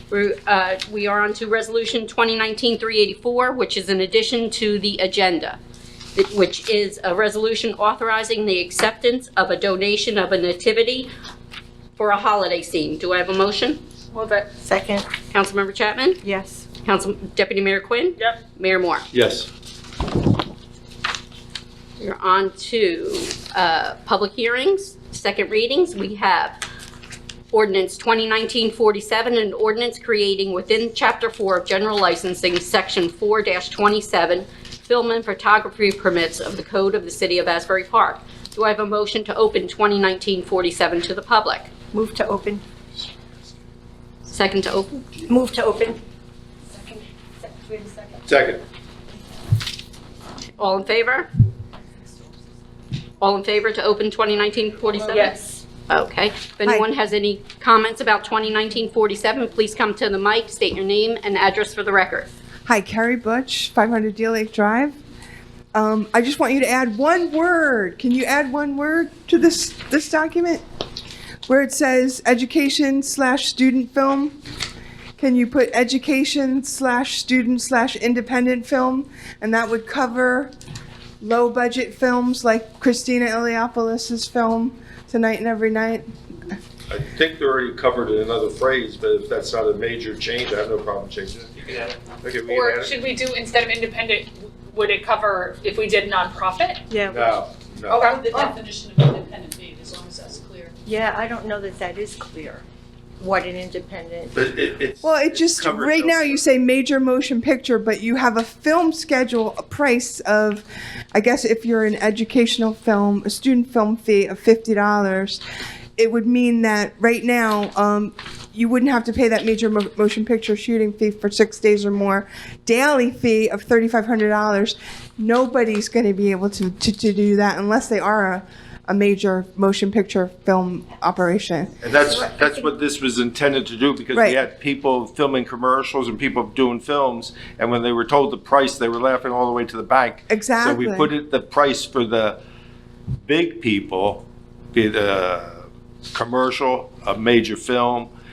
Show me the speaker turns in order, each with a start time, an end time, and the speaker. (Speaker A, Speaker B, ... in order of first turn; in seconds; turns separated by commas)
Speaker A: 0.1-5.6, Speaker A: 6.2-11.1, Speaker A: 12.0-13.8, Speaker B: 14.1-14.6, Speaker C: 14.6-15.1, Speaker A: 15.3-16.2, Speaker C: 16.2-16.6, Speaker A: 16.8-19.1, Speaker D: 19.1-19.5, Speaker A: 22.0-26.6, Speaker A: 27.5-41.7, Speaker C: 41.9-42.6, Speaker A: 44.3-45.0, Speaker C: 45.3-46.0, Speaker D: 48.2-48.6, Speaker A: 50.6-51.3, Speaker A: 53.2-55.4, Speaker B: 55.1-55.5, Speaker A: 55.9-62.3, Speaker E: 62.7-65.0, Speaker E: 65.7-70.6, Speaker E: 71.5-74.4, Speaker E: 75.2-80.5, Speaker E: 81.2-86.1, Speaker D: 86.9-91.5, Speaker D: 92.2-92.9, Speaker B: 92.4-96.9, Speaker C: 96.9-97.2, Speaker D: 97.1-98.1, Speaker B: 97.9-98.5, Speaker F: 97.9-100.8, Speaker C: 100.9-102.7, Speaker C: 103.2-104.3, Speaker D: 104.3-106.5, Speaker E: 105.0-115.4, Speaker E: 116.0-131.8, Speaker D: 131.8-142.4, Speaker E: 134.1-134.4, Speaker E: 140.3-141.1, Speaker D: 143.3-148.1